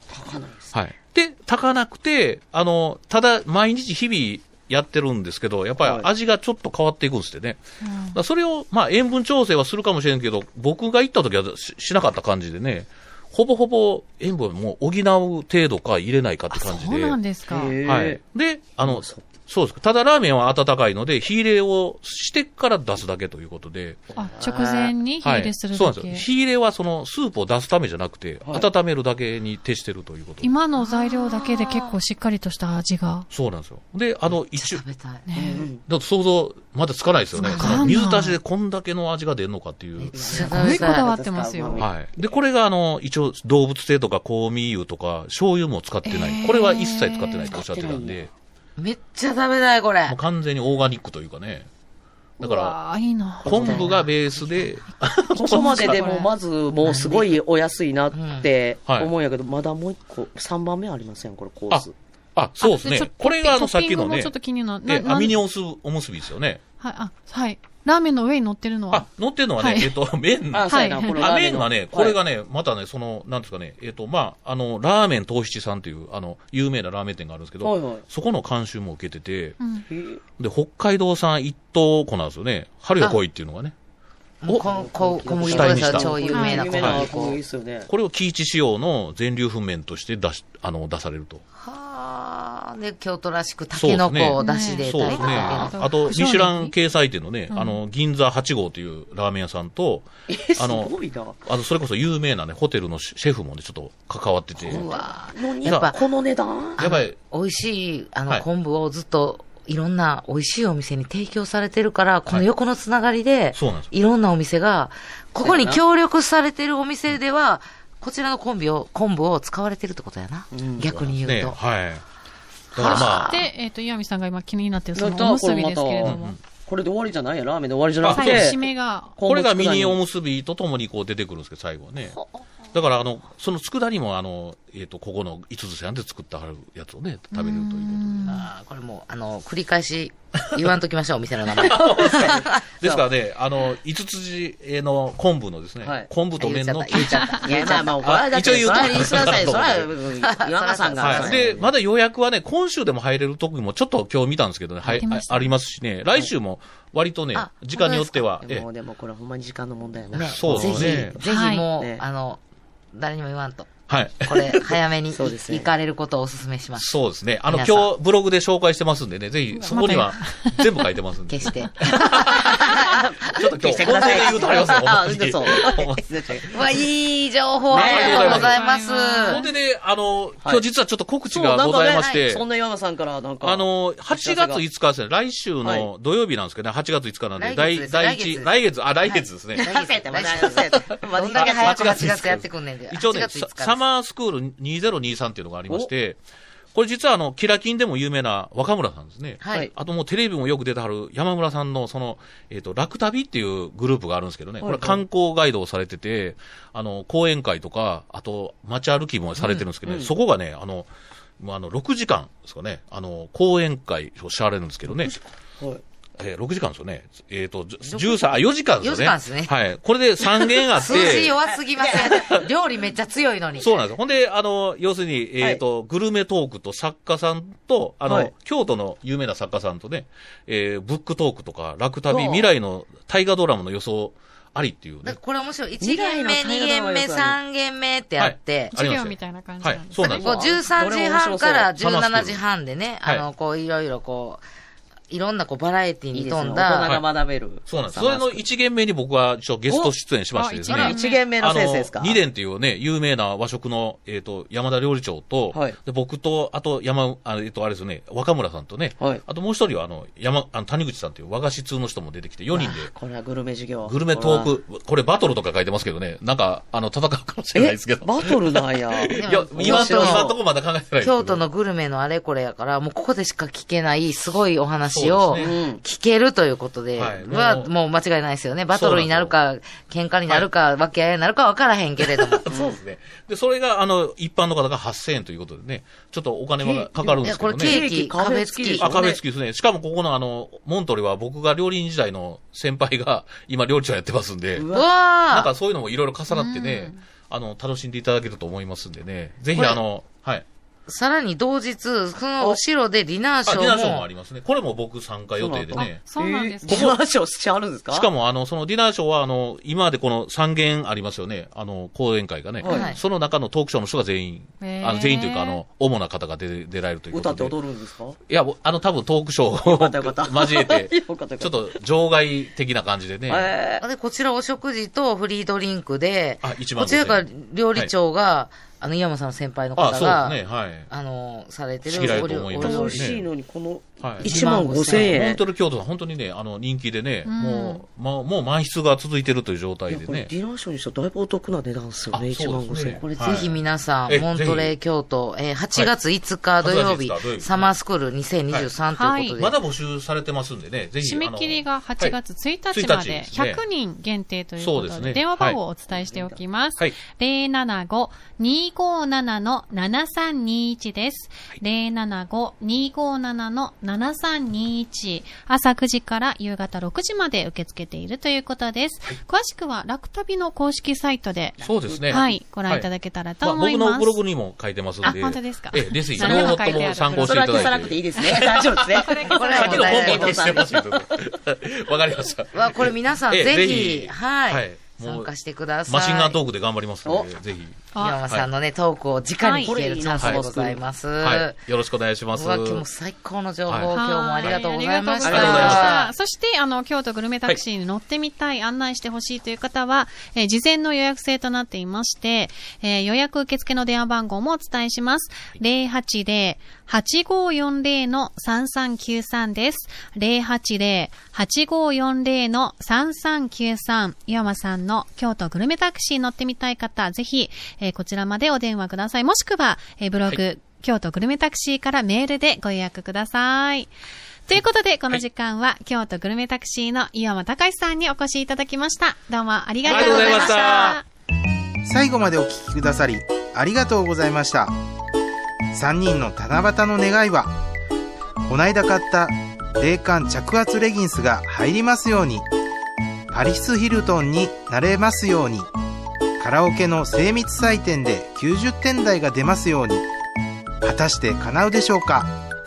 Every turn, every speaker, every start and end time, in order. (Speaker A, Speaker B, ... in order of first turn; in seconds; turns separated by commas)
Speaker A: 0.1-0.7, Speaker B: 0.7-7.6, Speaker A: 5.8-6.1, Speaker C: 7.8-8.2, Speaker B: 8.1-17.2, Speaker C: 16.5-17.8, Speaker A: 17.5-18.2, Speaker B: 17.8-24.1, Speaker A: 18.8-19.3, Speaker A: 24.1-24.9, Speaker C: 24.2-26.3, Speaker B: 25.2-30.5, Speaker C: 30.4-33.3, Speaker D: 30.8-32.0, Speaker B: 33.3-34.8, Speaker D: 34.5-35.2, Speaker C: 35.3-35.7, Speaker A: 35.4-35.8, Speaker B: 35.8-40.7, Speaker D: 37.4-38.0, Speaker C: 37.4-38.4, Speaker D: 40.0-41.0, Speaker A: 40.1-41.9, Speaker C: 40.5-41.8, Speaker B: 41.8-48.3, Speaker C: 46.0-47.5, Speaker A: 47.5-48.2, Speaker D: 48.8-50.2, Speaker B: 50.1-51.7, Speaker B: 52.4-52.8, Speaker C: 52.4-53.9, Speaker B: 53.4-56.0, Speaker A: 53.4-54.0, Speaker A: 55.4-61.9, Speaker C: 55.4-56.3, Speaker D: 56.8-57.4, Speaker D: 58.1-58.5, Speaker B: 61.7-66.6, Speaker C: 62.6-65.4, Speaker C: 66.8-69.1, Speaker B: 68.9-79.6, Speaker C: 69.6-70.0, Speaker A: 70.5-72.2, Speaker C: 70.7-71.3, Speaker A: 77.6-78.1, Speaker C: 79.6-79.9, Speaker A: 79.9-80.2, Speaker B: 80.4-83.7, Speaker D: 84.4-87.4, Speaker A: 84.5-87.9, Speaker B: 85.4-86.2, Speaker C: 86.3-86.7, Speaker B: 86.7-87.1, Speaker B: 87.9-91.4, Speaker D: 91.5-95.8, Speaker B: 93.8-100.9, Speaker C: 94.4-96.7, Speaker A: 95.1-95.6, Speaker C: 97.5-97.8, Speaker A: 100.3-101.4, Speaker B: 101.4-104.9, Speaker D: 104.6-106.0, Speaker A: 104.7-106.8, Speaker B: 105.7-105.9, Speaker B: 106.8-107.2, Speaker D: 106.8-121.6, Speaker B: 113.5-113.9, Speaker A: 115.4-115.8, Speaker A: 120.5-121.1, Speaker B: 121.2-122.0, Speaker B: 122.8-123.4, Speaker A: 122.8-123.4, Speaker C: 122.9-126.4, Speaker A: 125.0-128.6, Speaker B: 126.0-126.4, Speaker B: 128.0-128.6, Speaker C: 128.1-129.2, Speaker A: 129.2-130.0, Speaker B: 129.2-132.2, Speaker B: 132.7-138.3, Speaker C: 137.3-138.5, Speaker D: 138.3-142.5, Speaker B: 141.5-147.5, Speaker A: 141.6-143.1, Speaker A: 145.8-146.1, Speaker D: 146.4-147.9, Speaker C: 147.0-147.4, Speaker A: 147.4-151.7, Speaker B: 148.0-149.9, Speaker D: 148.6-149.5, Speaker D: 150.2-151.4, Speaker B: 151.0-158.7, Speaker C: 155.0-155.6, Speaker D: 157.3-158.3, Speaker A: 158.4-162.0, Speaker D: 160.1-162.4, Speaker B: 160.3-161.2, Speaker C: 161.2-161.7, Speaker D: 162.9-166.9, Speaker B: 163.9-164.6, Speaker A: 164.3-165.7, Speaker B: 166.8-176.5, Speaker D: 167.5-167.9, Speaker C: 169.5-170.7, Speaker D: 171.3-173.0, Speaker A: 172.1-176.6, Speaker D: 176.5-179.4, Speaker A: 177.7-178.5, Speaker B: 177.7-178.6, Speaker C: 177.8-179.5, Speaker B: 179.2-182.4, Speaker A: 181.3-184.6, Speaker D: 182.0-182.2, Speaker B: 183.4-189.8, Speaker A: 185.6-185.9, Speaker D: 187.4-188.5, Speaker D: 189.0-193.8, Speaker A: 189.6-192.3, Speaker B: 191.3-196.2, Speaker B: 196.7-210.9, Speaker D: 199.4-199.7, Speaker A: 204.6-205.0, Speaker D: 209.4-209.6, Speaker A: 209.8-210.1, Speaker B: 211.4-215.2, Speaker A: 215.1-215.8, Speaker B: 216.2-221.4, Speaker D: 218.8-219.5, Speaker D: 220.7-223.7, Speaker A: 220.8-222.5, Speaker B: 223.6-235.2, Speaker A: 228.1-228.3, Speaker A: 232.1-232.5, Speaker D: 235.0-238.7, Speaker A: 235.8-237.4, Speaker B: 238.2-240.5, Speaker C: 238.7-240.3, Speaker A: 240.0-241.7, Speaker D: 240.0-244.4, Speaker B: 241.7-242.4, Speaker D: 245.1-246.9, Speaker A: 246.1-248.4, Speaker B: 247.7-262.9, Speaker A: 249.7-249.9, Speaker C: 250.3-251.2, Speaker A: 250.7-252.2, Speaker A: 255.5-255.8, Speaker A: 259.0-259.2, Speaker A: 262.5-264.5, Speaker B: 263.9-271.4, Speaker A: 267.5-270.4, Speaker D: 269.2-270.4, Speaker D: 271.0-282.5, Speaker B: 274.9-275.6, Speaker A: 275.4-275.8, Speaker B: 276.9-277.7, Speaker B: 278.7-279.3, Speaker B: 282.0-287.9, Speaker A: 282.5-282.8, Speaker A: 286.6-289.2, Speaker D: 287.2-288.9, Speaker B: 288.8-294.7, Speaker A: 294.6-294.9, Speaker D: 294.7-295.5, Speaker B: 295.3-300.4, Speaker C: 296.3-297.0, Speaker D: 299.5-299.8, Speaker D: 300.9-304.1, Speaker B: 303.4-306.1, Speaker A: 305.4-308.1, Speaker C: 305.8-306.9, Speaker B: 306.7-307.0, Speaker B: 307.9-317.6, Speaker C: 312.6-312.9, Speaker A: 312.6-312.9, Speaker D: 312.7-313.0, Speaker C: 314.6-315.6, Speaker A: 317.1-318.2, Speaker B: 318.3-323.5, Speaker A: 319.6-321.6, Speaker A: 323.3-323.8, Speaker D: 323.8-333.1, Speaker B: 326.4-327.9, Speaker B: 329.8-330.9, Speaker B: 331.9-333.3, Speaker A: 331.9-335.4, Speaker B: 334.0-340.3, Speaker D: 334.2-335.2, Speaker C: 337.2-337.8, Speaker A: 339.9-343.1, Speaker B: 342.1-344.8, Speaker D: 343.1-349.6, Speaker B: 346.6-347.7, Speaker C: 349.0-349.4, Speaker B: 349.3-352.2, Speaker C: 351.0-371.6, Speaker B: 352.7-353.6, Speaker B: 354.6-355.6, Speaker A: 371.6-372.2, Speaker B: 371.6-372.9, Speaker C: 372.1-374.2, Speaker B: 373.4-385.3, Speaker C: 375.0-378.2, Speaker A: 376.2-381.1, Speaker C: 378.9-379.7, Speaker D: 379.2-380.5, Speaker D: 382.5-386.4, Speaker B: 385.9-388.5, Speaker C: 387.9-388.2, Speaker D: 388.0-391.6, Speaker C: 389.4-389.7, Speaker A: 389.6-390.8, Speaker B: 390.2-390.5, Speaker B: 391.2-392.9, Speaker D: 392.3-396.1, Speaker B: 393.7-394.6, Speaker C: 393.9-423.9, Speaker A: 395.2-395.8, Speaker B: 395.2-396.1, Speaker C: 424.5-431.0, Speaker B: 429.8-431.0, Speaker E: 431.9-434.7, Speaker E: 435.7-437.5, Speaker E: 438.5-442.5, Speaker E: 443.3-445.7, Speaker E: 446.4-450.0, Speaker E: 450.8-452.3